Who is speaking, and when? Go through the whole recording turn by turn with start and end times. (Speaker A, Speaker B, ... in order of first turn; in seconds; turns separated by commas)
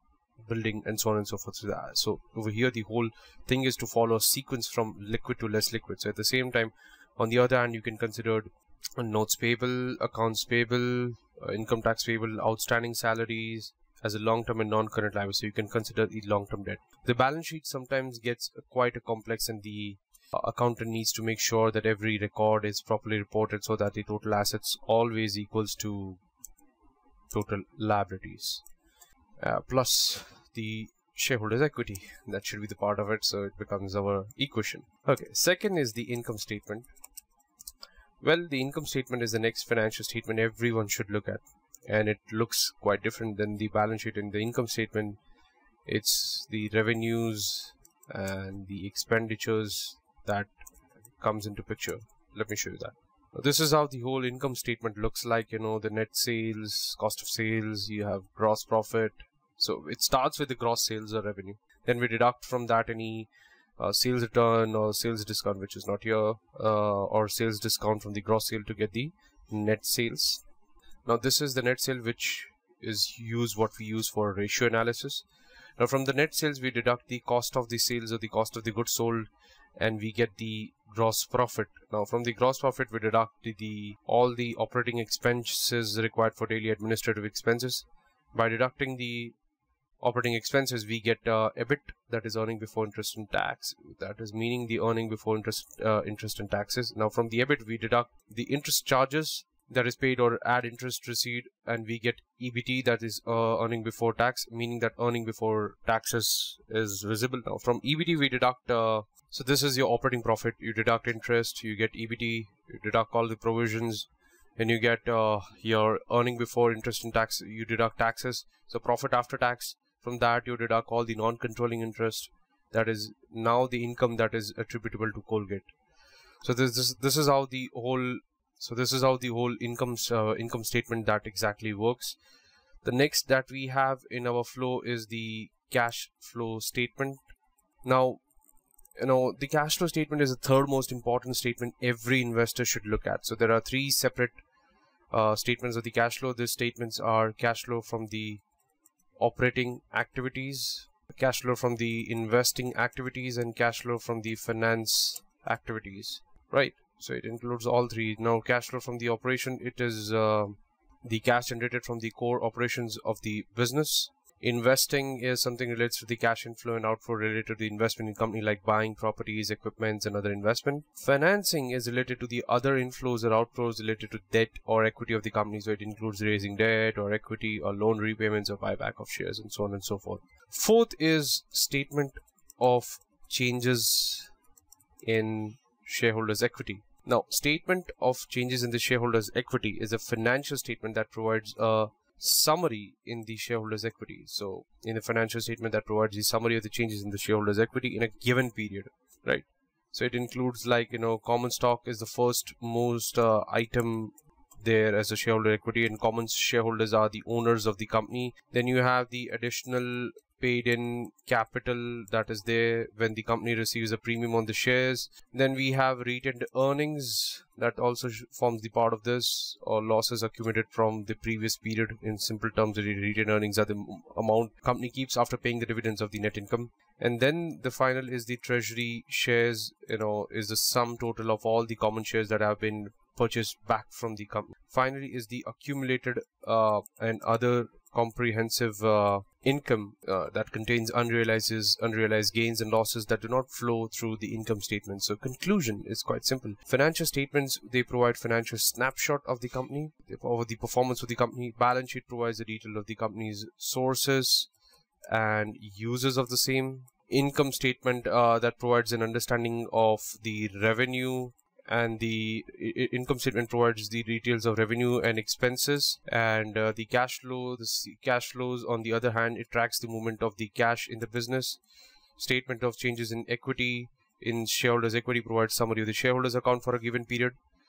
Speaker A: 0.4-26.2, Speaker A: 27.3-28.6, Speaker A: 29.4-36.9, Speaker A: 38.2-45.2, Speaker A: 45.9-50.5, Speaker A: 51.1-70.4, Speaker A: 71.0-75.3, Speaker A: 75.8-89.3, Speaker A: 90.0-125.7, Speaker A: 126.4-132.2, Speaker A: 132.8-137.2, Speaker A: 137.8-138.2, Speaker A: 139.0-144.4, Speaker A: 145.1-148.4, Speaker A: 149.2-184.3, Speaker A: 185.0-254.5, Speaker A: 255.1-271.6, Speaker A: 272.2-277.4